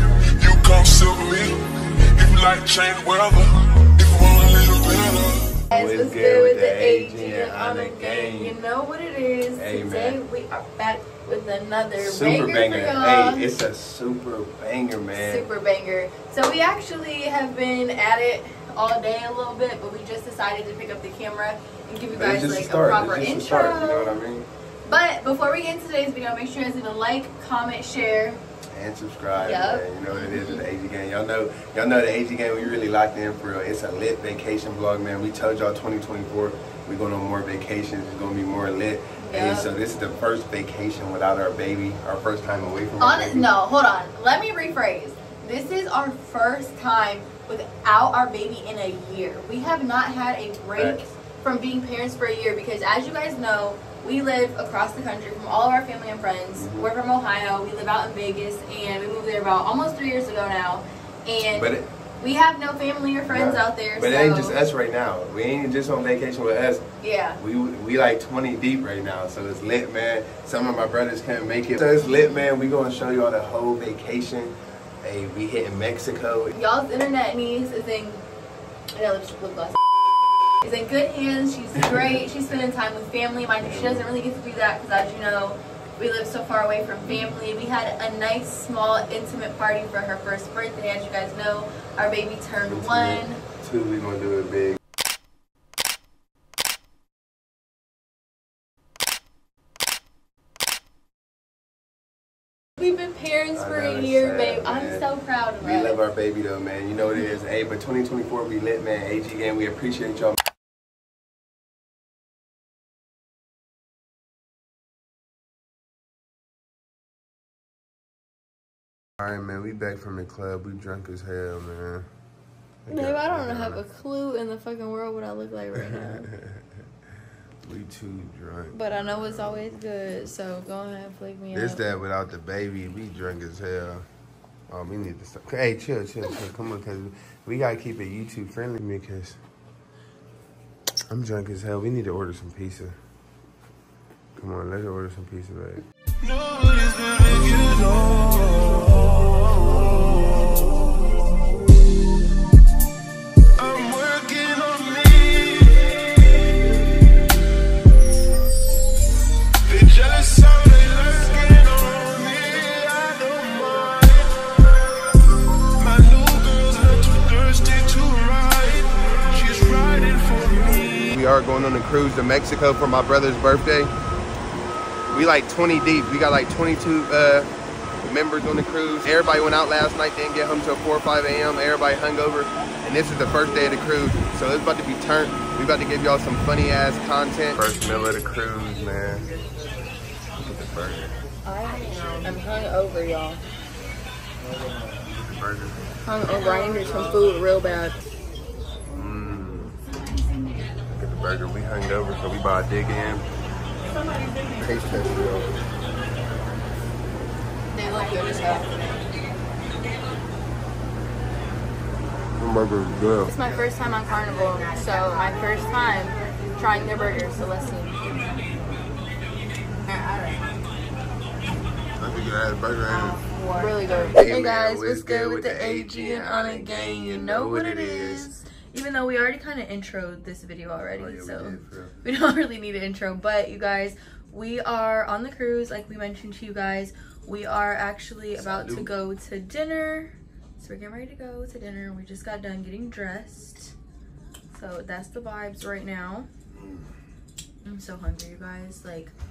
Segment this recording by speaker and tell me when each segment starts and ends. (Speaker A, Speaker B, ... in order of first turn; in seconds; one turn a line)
Speaker A: 0.4-1.6
Speaker A: 2.1-5.6
Speaker B: 5.7-13.5
Speaker C: 5.7-8.6
Speaker C: 9.6-10.2
Speaker C: 12.0-15.5
Speaker B: 15.1-24.1
Speaker C: 22.1-24.5
Speaker B: 24.9-28.4
Speaker C: 28.7-43.5
Speaker B: 29.3-30.6
Speaker B: 39.2-39.7
Speaker B: 43.0-64.6
Speaker C: 50.7-51.0
Speaker C: 56.5-56.9
Speaker C: 61.5-61.9
Speaker C: 63.3-66.8
Speaker B: 67.0-67.4
Speaker C: 67.4-76.5
Speaker B: 76.5-78.2
Speaker B: 79.0-79.8
Speaker B: 80.6-93.4
Speaker C: 81.8-82.2
Speaker C: 83.6-84.1
Speaker C: 92.6-94.8
Speaker B: 102.8-106.0
Speaker C: 103.5-105.1
Speaker C: 105.6-110.4
Speaker C: 119.2-122.1
Speaker C: 122.8-123.8
Speaker B: 122.9-126.3
Speaker C: 125.7-126.6
Speaker C: 127.6-129.7
Speaker B: 128.7-131.8
Speaker C: 131.5-134.1
Speaker C: 134.7-139.4
Speaker C: 141.1-143.0
Speaker C: 144.3-145.8
Speaker A: 146.2-150.8
Speaker A: 153.6-156.4
Speaker A: 159.7-164.3
Speaker A: 165.8-171.1
Speaker C: 171.1-173.9
Speaker C: 175.1-177.5
Speaker C: 178.1-189.3
Speaker C: 190.4-191.2
Speaker B: 191.4-193.4
Speaker C: 195.1-195.9
Speaker B: 196.1-198.0
Speaker C: 198.9-199.8
Speaker C: 200.9-203.3
Speaker C: 204.5-205.5
Speaker B: 207.7-208.8
Speaker C: 212.4-213.3
Speaker B: 213.3-218.1
Speaker C: 222.0-223.2
Speaker B: 223.5-243.7
Speaker C: 223.8-228.3
Speaker C: 230.9-231.9
Speaker C: 238.3-238.9
Speaker B: 244.5-246.3
Speaker C: 246.5-247.0
Speaker B: 247.6-249.1